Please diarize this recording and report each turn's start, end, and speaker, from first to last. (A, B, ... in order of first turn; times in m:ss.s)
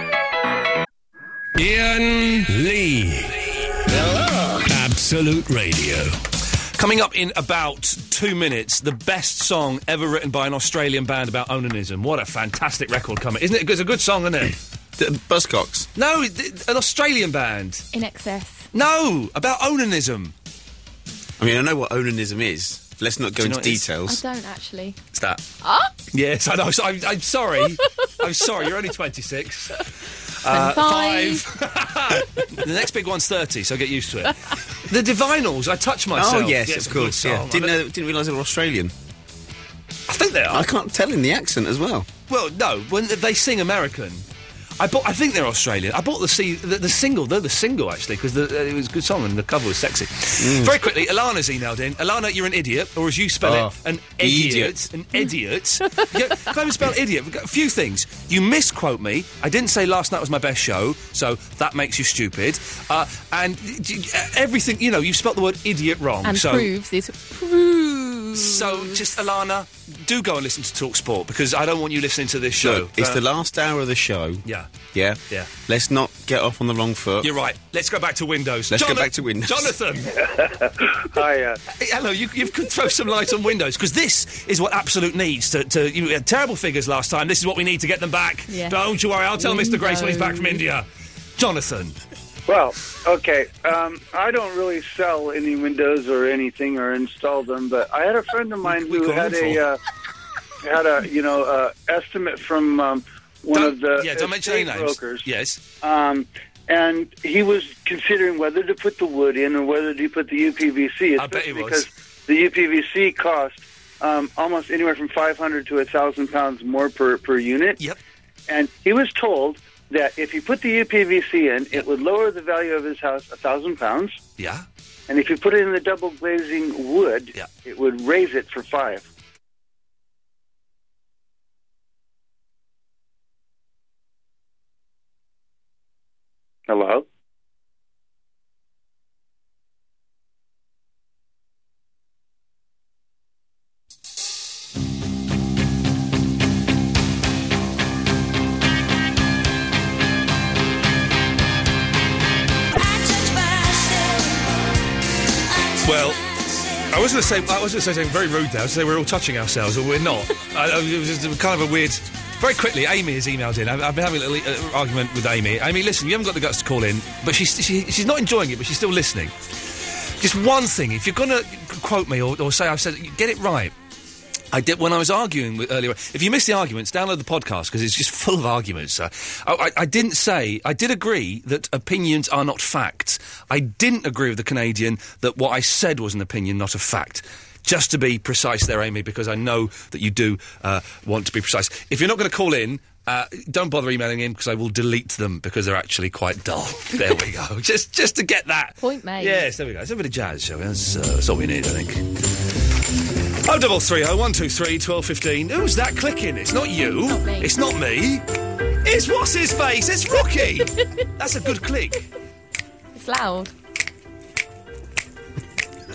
0:01.6-0:06.1 A
0:06.7-0:14.6 B
0:15.0-0:15.9 C
0:16.0-0:17.9 B
0:17.9-0:18.6 D
0:18.7-0:20.3 B
0:21.4-0:24.2 C
0:23.4-0:23.9 B
0:24.0-0:25.0 D
0:25.1-0:25.4 B
0:25.6-0:25.9 D
0:26.1-0:29.8 B
0:30.4-0:37.8 B
0:30.5-0:31.4 D
0:36.1-0:38.9 C
0:40.1-0:40.7 B
0:40.5-0:42.1 C
0:42.3-0:44.2 B
0:44.8-1:06.7 B
0:50.4-0:50.8 C
0:53.4-0:54.8 C
1:06.2-1:09.0 D
1:08.3-1:13.2 B
1:12.6-1:17.3 C
1:14.4-1:14.7 B
1:17.2-1:20.1 B
1:18.7-1:19.7 C
1:20.4-1:21.6 E
1:21.7-1:30.8 B
1:28.5-1:28.8 D
1:29.4-1:30.6 D
1:31.4-1:32.0 B
1:32.5-1:39.8 E
1:38.6-1:39.6 B
1:40.6-1:45.2 E
1:43.5-1:45.6 B
1:45.8-1:57.8 E
1:51.2-1:51.8 B
1:58.5-2:04.2 E
2:04.4-2:04.6 B
2:05.1-2:09.0 E
2:16.7-2:17.0 E
2:35.8-2:36.2 B
2:36.9-2:49.3 B
2:50.2-2:53.7 B
2:54.5-3:22.0 B
3:18.8-3:19.5 D
3:23.4-3:28.2 B
3:27.1-3:27.5 D
3:28.8-3:32.0 B
3:32.9-3:33.5 D